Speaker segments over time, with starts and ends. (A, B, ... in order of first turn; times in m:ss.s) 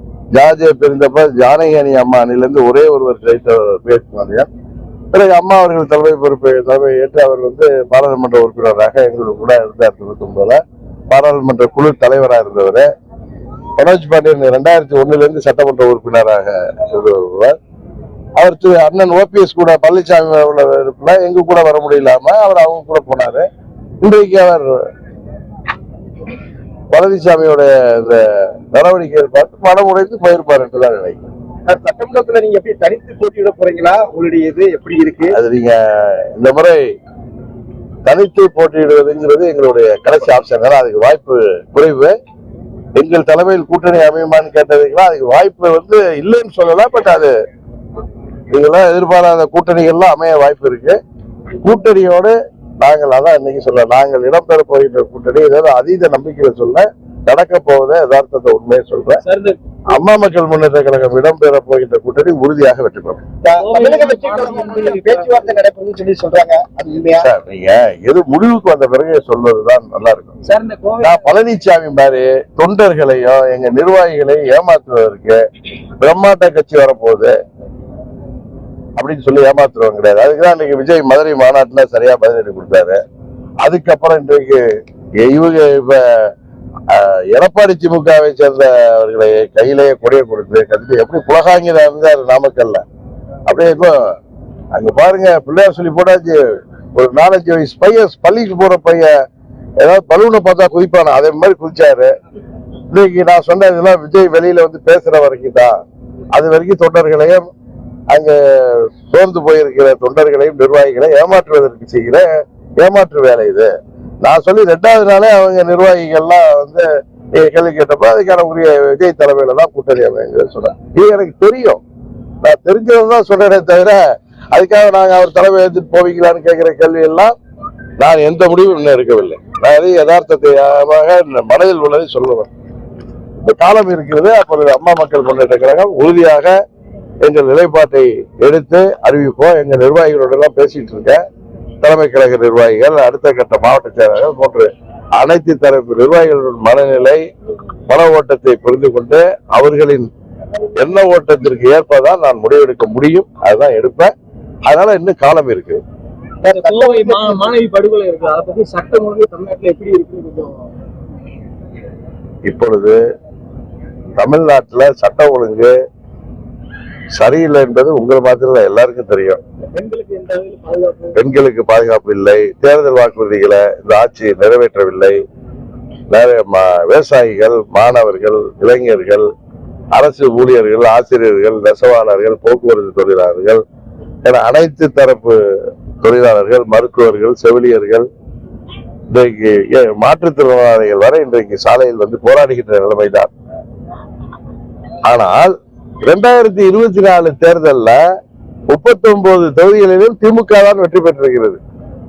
0:00.3-0:04.5 A
0:05.1-0:10.6 A
0:11.1-0:12.9 A
0:13.8-0:17.6 A
0:18.4-0:23.5 A
0:24.0-0:24.7 A
0:26.9-0:31.2 A
0:31.7-0:35.3 B
0:35.3-0:36.8 A
0:38.0-0:42.1 A
0:43.0-0:47.3 A
0:48.5-0:51.0 A
0:51.6-0:59.2 A
0:59.2-0:59.6 C
0:59.9-1:03.2 A
1:03.4-1:07.2 B
1:03.6-1:05.3 C
1:07.2-1:10.4 A
1:10.4-1:11.3 C
1:11.0-1:15.4 A
1:16.0-1:17.3 A
1:19.0-1:23.0 A
1:23.6-1:24.6 A
1:25.2-1:26.0 A
1:26.9-1:32.8 A
1:33.5-1:33.9 A
1:34.7-1:36.4 A
1:37.0-1:39.1 A
1:39.8-1:42.1 A
1:42.9-1:45.8 A
1:46.3-1:47.4 A
1:48.1-1:52.3 A
1:52.8-1:53.7 A
1:54.2-1:56.8 A
1:57.4-2:01.8 A
2:02.4-2:04.0 A
2:04.5-2:07.3 A
2:08.0-2:12.5 A
2:13.4-2:16.5 A
2:17.2-2:21.2 A
2:21.8-2:27.2 A
2:27.9-2:30.1 A
2:30.7-2:34.1 A
2:34.6-2:35.8 A
2:36.4-2:37.5 B
2:36.4-2:40.7 C
2:42.5-2:43.0 A
2:44.2-2:45.7 A
2:47.1-2:49.4 A
2:49.7-2:51.2 C
2:51.1-2:55.2 A
2:56.1-2:59.3 A
2:59.9-3:03.6 A
3:04.2-3:05.4 A
3:06.0-3:08.1 A
3:09.1-3:13.3 A
3:15.1-3:15.5 A
3:16.0-3:18.0 A
3:18.7-3:21.6 A